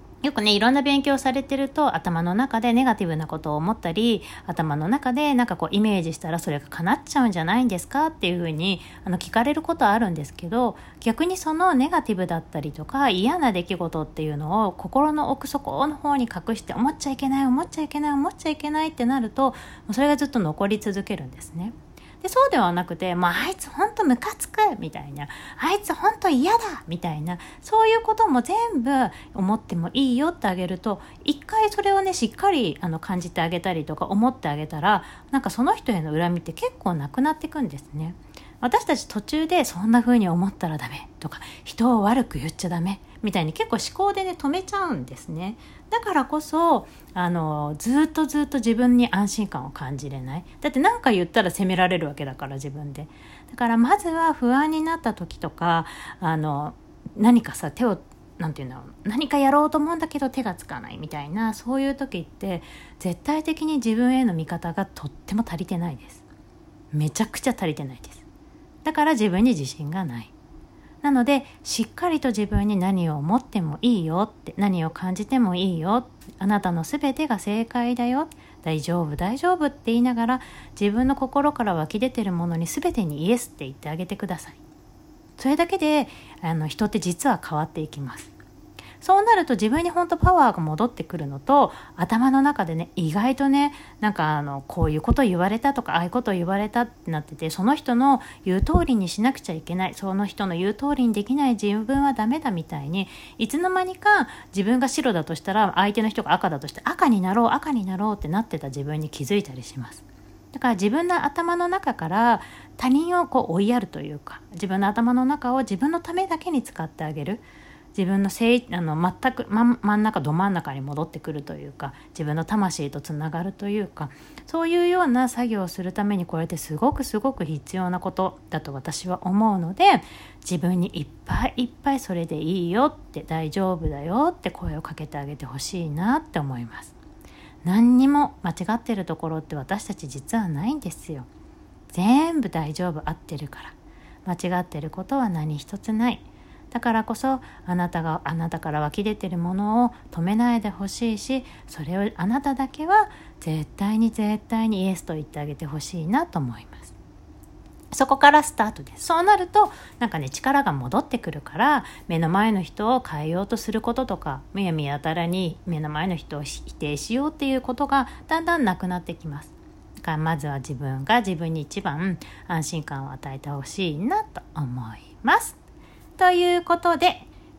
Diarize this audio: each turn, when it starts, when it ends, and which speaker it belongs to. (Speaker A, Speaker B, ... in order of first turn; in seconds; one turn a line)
Speaker A: 0.2-66.2
Speaker A: 66.9-68.2
Speaker A: 68.8-70.3
Speaker A: 71.0-84.6
Speaker A: 85.4-88.3
Speaker A: 89.0-136.9
Speaker A: 137.6-141.3
Speaker A: 141.9-156.9
Speaker A: 157.9-175.6
Speaker A: 176.2-177.3